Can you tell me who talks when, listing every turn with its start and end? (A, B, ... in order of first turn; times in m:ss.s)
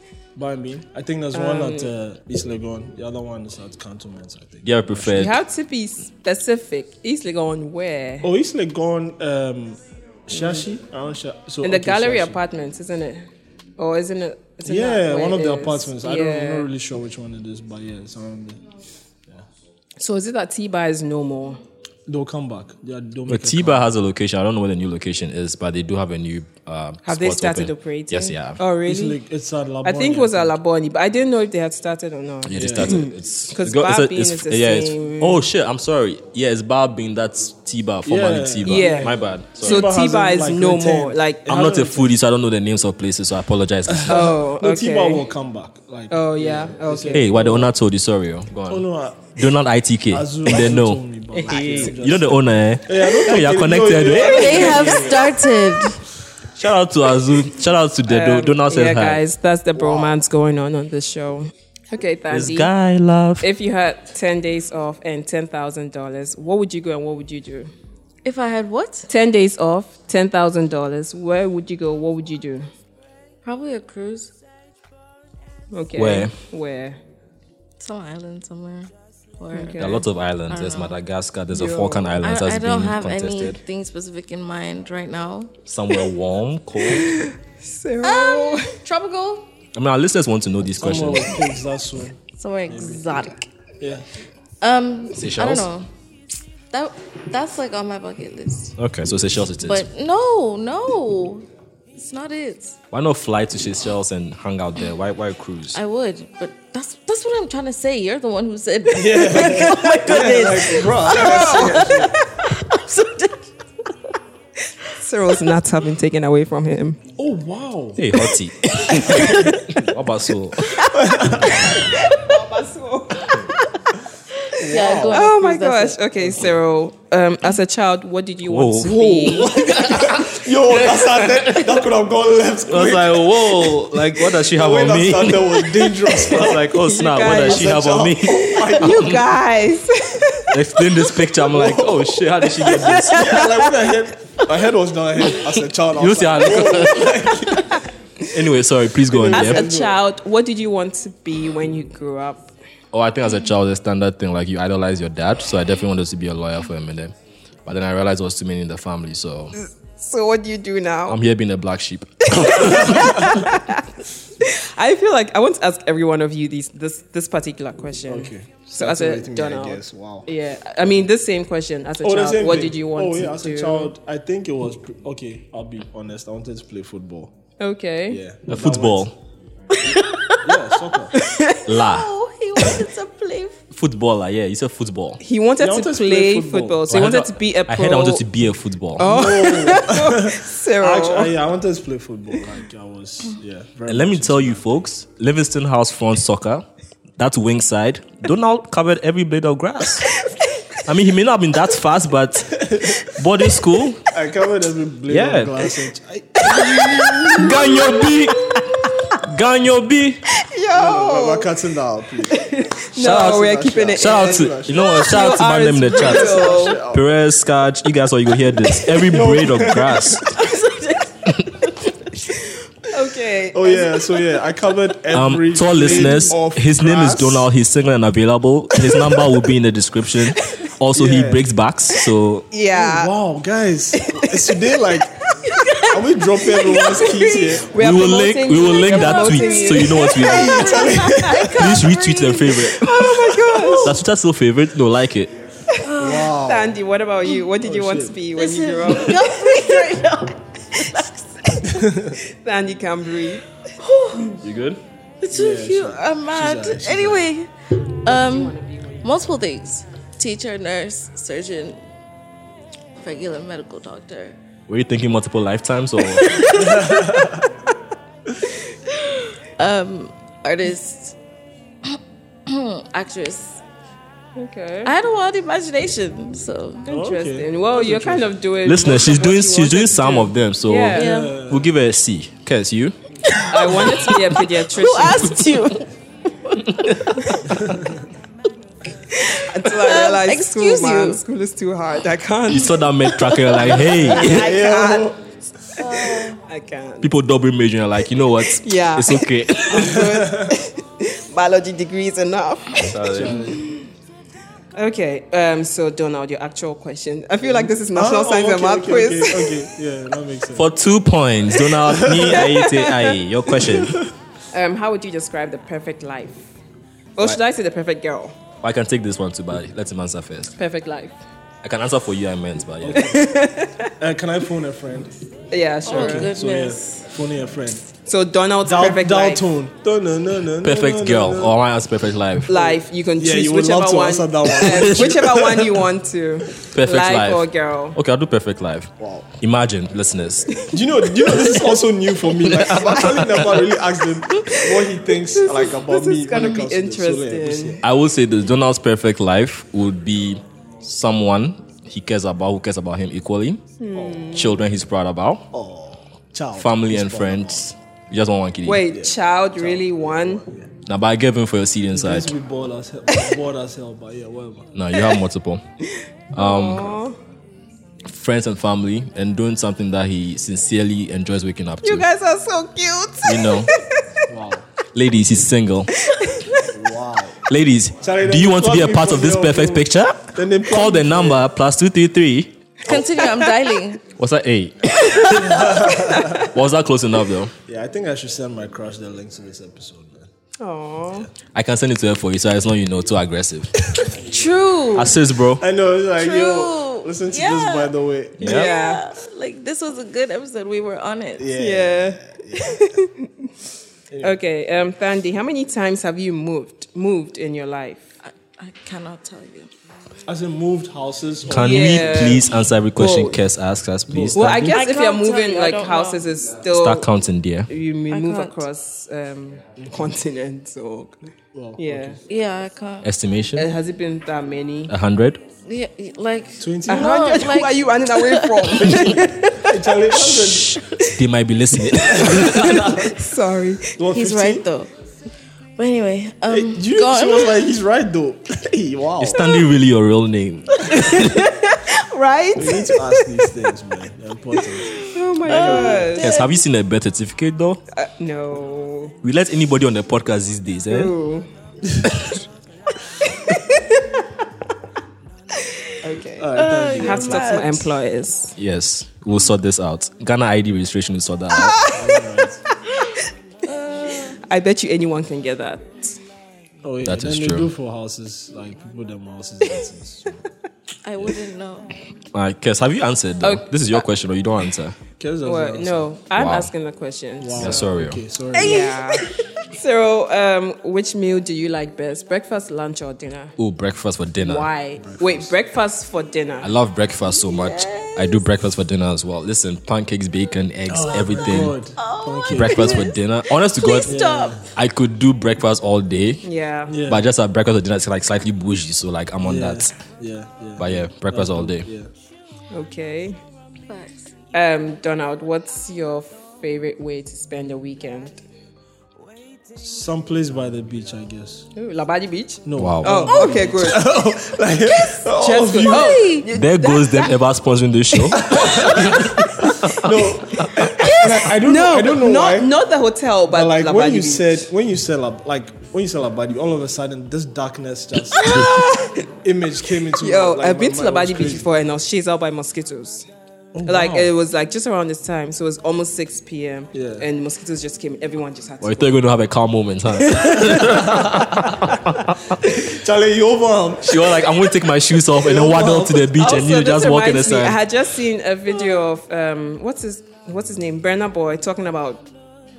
0:00.3-0:05.3 A
0:01.3-0:01.9 B
0:04.6-0:05.4 C
0:05.1-0:08.3 B
0:08.2-0:12.4 A
0:10.3-0:10.6 B
0:11.6-0:13.2 B
0:13.8-0:16.7 B
0:14.6-0:18.6 A
0:20.0-0:21.6 B
0:22.1-0:23.9 A
0:23.3-0:28.6 C
0:27.0-0:29.2 B
0:28.8-0:30.6 A
0:29.8-0:35.4 B
0:32.5-0:39.9 C
0:32.5-0:33.0 A
0:38.0-0:42.2 A
0:38.6-0:41.7 B
0:41.5-0:44.3 C
0:43.9-0:47.7 A
0:44.1-0:45.2 B
0:46.1-0:47.3 B
0:47.1-0:48.8 C
0:48.7-0:49.5 A
0:49.4-0:54.7 C
0:50.1-0:55.3 A
0:54.2-0:56.0 D
0:54.3-0:55.1 B
0:56.6-0:59.2 C
0:58.0-1:02.7 B
0:59.7-1:00.2 A
1:02.3-1:03.5 C
1:03.4-1:07.7 B
1:08.2-1:09.1 D
1:09.1-1:12.7 B
1:13.4-1:14.3 D
1:15.7-1:17.0 B
1:15.9-1:16.3 C
1:17.8-1:21.0 D
1:19.5-1:20.0 B
1:19.8-1:23.6 C
1:21.5-1:22.1 B
1:22.2-1:25.5 D
1:25.6-1:27.1 C
1:26.8-1:28.8 B
1:28.0-1:29.5 D
1:29.8-1:31.5 C
1:30.7-1:34.1 A
1:32.4-1:33.5 D
1:34.6-1:35.9 D
1:35.1-1:35.7 C
1:36.7-1:38.7 D
1:38.8-1:39.8 C
1:39.6-1:42.8 D
1:42.9-1:45.8 C
1:45.7-1:54.1 D
1:48.9-1:52.1 A
1:51.0-1:52.1 B
1:55.0-1:57.0 B
1:57.2-1:58.2 A
1:58.0-2:00.7 C
1:58.9-1:59.4 B
1:59.1-1:59.8 A
2:00.6-2:02.3 D
2:00.9-2:01.8 A
2:01.8-2:03.4 B
2:04.5-2:06.0 D
2:04.6-2:05.3 A
2:05.1-2:10.0 B
2:06.2-2:06.5 A
2:08.4-2:11.7 C
2:08.8-2:19.2 A
2:12.7-2:19.2 C
2:16.2-2:17.8 B
2:18.4-2:20.5 B
2:20.5-2:23.5 C
2:21.5-2:22.0 A
2:21.6-2:21.9 B
2:22.4-2:23.9 B
2:23.0-2:27.8 A
2:25.9-2:27.6 C
2:28.3-2:29.6 C
2:29.1-2:30.0 A
2:29.3-2:32.5 B
2:32.9-2:37.1 C
2:37.6-2:39.5 C
2:39.5-2:41.2 B
2:41.1-2:43.2 C
2:42.3-2:53.9 B
2:43.0-2:43.4 A
2:48.0-2:50.3 A
2:52.0-2:57.3 A
2:57.6-2:58.2 B
2:58.1-2:59.1 A
2:58.5-2:59.1 C
2:59.7-3:00.6 D
3:00.4-3:01.2 A
3:01.1-3:01.6 B
3:01.6-3:02.1 C
3:01.7-3:03.6 D
3:03.7-3:05.2 C
3:05.2-3:08.2 B
3:05.6-3:06.8 A
3:06.9-3:09.1 C
3:09.0-3:11.3 B
3:09.0-3:14.8 A
3:13.9-3:16.6 C
3:17.2-3:20.1 C
3:20.8-3:24.0 C
3:22.6-3:23.1 A
3:24.1-3:28.0 A
3:25.1-3:25.7 C
3:26.5-3:28.1 B
3:27.3-3:28.6 C
3:29.1-3:30.2 C
3:30.4-3:31.5 B
3:30.7-3:32.4 A
3:32.3-3:36.8 B
3:33.0-3:40.3 C
3:33.0-3:34.9 A
3:35.9-3:37.1 A
3:38.7-3:40.5 A
3:40.4-3:41.1 D
3:42.3-3:44.3 B
3:43.5-3:47.4 A
3:45.1-3:52.4 C
3:45.8-3:46.3 B
3:50.9-3:51.4 A
3:52.5-3:53.1 B
3:52.7-3:57.7 A
3:53.9-3:54.7 B
3:55.3-4:03.9 B
3:57.7-4:00.9 C
3:58.8-4:02.8 D
4:00.2-4:01.8 A
4:01.5-4:03.1 C
4:03.1-4:03.7 A
4:03.8-4:05.3 C
4:05.7-4:09.9 B
4:05.8-4:06.3 D
4:06.0-4:06.8 A
4:07.6-4:08.2 A
4:08.3-4:11.6 D
4:10.8-4:13.5 B
4:11.6-4:12.2 A
4:13.8-4:14.4 D
4:14.4-4:14.8 C
4:15.2-4:21.8 D
4:15.3-4:17.3 A
4:18.0-4:19.1 B
4:23.0-4:24.4 D
4:24.7-4:26.3 C
4:26.2-4:27.3 D
4:26.4-4:27.5 A
4:28.9-4:31.1 D
4:32.5-4:33.6 D
4:34.4-4:34.9 B
4:34.8-4:36.9 D
4:36.8-4:38.3 A
4:36.9-4:41.0 B
4:38.6-4:42.9 C
4:40.9-4:41.4 D
4:40.9-4:41.7 A
4:43.2-4:44.2 D
4:43.5-4:45.4 B
4:44.7-4:45.9 D
4:46.5-4:47.4 D
4:47.6-4:48.0 A
4:49.1-4:52.8 B
4:49.2-4:51.2 D
4:52.5-4:54.5 C
4:53.1-4:54.1 D
4:53.6-4:55.2 B
4:54.1-4:55.2 A
4:55.8-4:56.4 D
4:55.9-4:57.1 B
4:57.0-5:00.0 C
4:58.4-5:02.9 B
4:59.7-5:00.6 A
5:02.7-5:03.4 C
5:03.0-5:03.6 A
5:04.7-5:09.6 B
5:07.4-5:10.7 A
5:10.6-5:14.0 C
5:11.9-5:12.3 A
5:12.0-5:13.2 B
5:13.6-5:14.1 A
5:14.5-5:16.5 B
5:17.2-5:18.4 B
5:18.6-5:20.5 C
5:20.6-5:21.2 B
5:21.6-5:23.2 C
5:22.8-5:23.3 A
5:23.0-5:23.9 B
5:24.0-5:25.1 A
5:25.5-5:26.3 B
5:25.8-5:27.0 D
5:25.8-5:27.8 A
5:28.0-5:29.5 B
5:28.6-5:31.6 A
5:30.6-5:32.7 C
5:32.5-5:38.0 B
5:32.6-5:35.8 A
5:34.5-5:35.1 C
5:36.6-5:40.5 C
5:39.0-5:39.3 A
5:40.6-5:41.7 B
5:40.7-5:47.8 A
5:42.4-5:43.5 C
5:44.5-5:47.8 B
5:47.8-5:53.6 C
5:53.8-5:54.6 B
5:53.9-5:54.4 A
5:54.3-5:55.5 C
5:55.5-5:57.7 A
5:56.6-5:58.8 C
5:58.6-6:00.4 B
5:58.9-6:00.7 A
6:00.8-6:02.3 C
6:01.9-6:04.7 A
6:04.7-6:05.6 C
6:05.9-6:07.2 B
6:06.3-6:06.9 C
6:08.0-6:12.1 C
6:11.8-6:14.0 B
6:13.2-6:13.7 C
6:14.3-6:14.7 A
6:14.9-6:15.9 C
6:16.0-6:16.7 B
6:16.6-6:17.4 A
6:17.5-6:22.5 C
6:18.0-6:21.5 A
6:22.8-6:24.0 D
6:23.0-6:23.5 B
6:24.2-6:25.6 C
6:25.0-6:25.3 B
6:25.1-6:25.8 D
6:25.3-6:26.5 A
6:25.8-6:26.5 B
6:26.5-6:27.5 C
6:27.7-6:30.3 A
6:30.6-6:31.3 B
6:31.5-6:33.8 C
6:33.9-6:34.5 A
6:34.3-6:35.2 D
6:34.9-6:35.6 C
6:35.5-6:38.7 A
6:36.2-6:37.9 D
6:38.4-6:38.7 C
6:38.4-6:39.0 B
6:38.4-6:41.5 D
6:41.4-6:42.8 A
6:41.6-6:43.3 B
6:44.1-6:44.4 A
6:44.2-6:48.1 B
6:48.2-6:49.7 D
6:50.2-6:52.6 A
6:51.5-6:54.7 C
6:51.6-6:52.4 B
6:53.0-6:53.4 B
6:54.1-6:54.5 A
6:54.3-6:57.0 B
6:54.7-6:56.3 D
6:56.7-6:57.7 C
6:57.7-7:01.2 B
6:58.1-6:58.6 D
7:01.5-7:02.2 A
7:01.8-7:02.2 B
7:02.3-7:03.1 D
7:03.0-7:03.7 C
7:03.6-7:04.9 B
7:04.9-7:05.4 C
7:05.6-7:09.0 D
7:06.6-7:07.4 A
7:06.9-7:10.8 B
7:08.7-7:10.8 A
7:10.9-7:12.9 C
7:12.0-7:13.3 A
7:12.0-7:14.0 B
7:13.9-7:14.6 A
7:14.1-7:14.9 D
7:15.8-7:17.7 D
7:16.5-7:19.5 A
7:19.2-7:21.5 C
7:20.8-7:23.4 B
7:22.5-7:26.3 A
7:25.0-7:26.4 B
7:25.4-7:26.5 D
7:26.2-7:27.8 C
7:27.9-7:29.1 B
7:29.2-7:31.1 C
7:30.9-7:31.5 B
7:33.2-7:34.2 B
7:36.0-7:38.5 B
7:36.4-7:37.7 A
7:36.5-7:37.9 D
7:38.6-7:41.8 C
7:41.6-7:42.2 B
7:41.9-7:42.6 A
7:43.6-7:44.4 D
7:44.3-7:46.2 B
7:46.8-7:50.4 A
7:47.0-7:47.7 C
7:51.0-7:51.9 D
7:52.3-7:55.0 C
7:53.4-7:54.0 B
7:55.2-7:56.1 A
7:55.4-7:57.9 B
7:56.3-7:56.7 C
7:57.4-7:59.0 A
7:57.6-7:58.2 C
7:58.5-7:59.3 D
7:58.6-8:03.5 B
8:03.6-8:04.7 C
8:04.4-8:06.7 B
8:05.0-8:05.5 A
8:06.6-8:11.8 C
8:07.2-8:08.4 D
8:10.9-8:13.1 A
8:12.0-8:14.7 D
8:12.5-8:14.2 C
8:14.0-8:14.7 A
8:14.7-8:16.4 C
8:16.4-8:17.0 B
8:16.9-8:17.3 A
8:17.1-8:20.0 C
8:19.4-8:22.1 A
8:20.8-8:21.9 C
8:22.7-8:23.4 B
8:23.9-8:24.1 D
8:24.5-8:28.4 B
8:29.8-8:31.7 A
8:31.7-8:34.1 B
8:32.6-8:36.3 A
8:32.8-8:33.2 C
8:33.3-8:33.6 D
8:35.3-8:37.4 B
8:35.8-8:36.5 D
8:36.5-8:39.9 C
8:38.1-8:40.0 B
8:38.3-8:42.7 A
8:40.8-8:44.7 B
8:43.5-8:51.7 A
8:48.4-8:49.1 B
8:50.2-8:53.3 B
8:53.7-8:54.3 A
8:53.8-8:59.2 B
8:56.9-8:57.3 A
8:58.8-9:02.6 C
9:00.3-9:02.0 B
9:00.7-9:01.4 A
9:02.7-9:04.4 A
9:04.0-9:07.8 C
9:05.3-9:06.3 A
9:06.4-9:12.3 B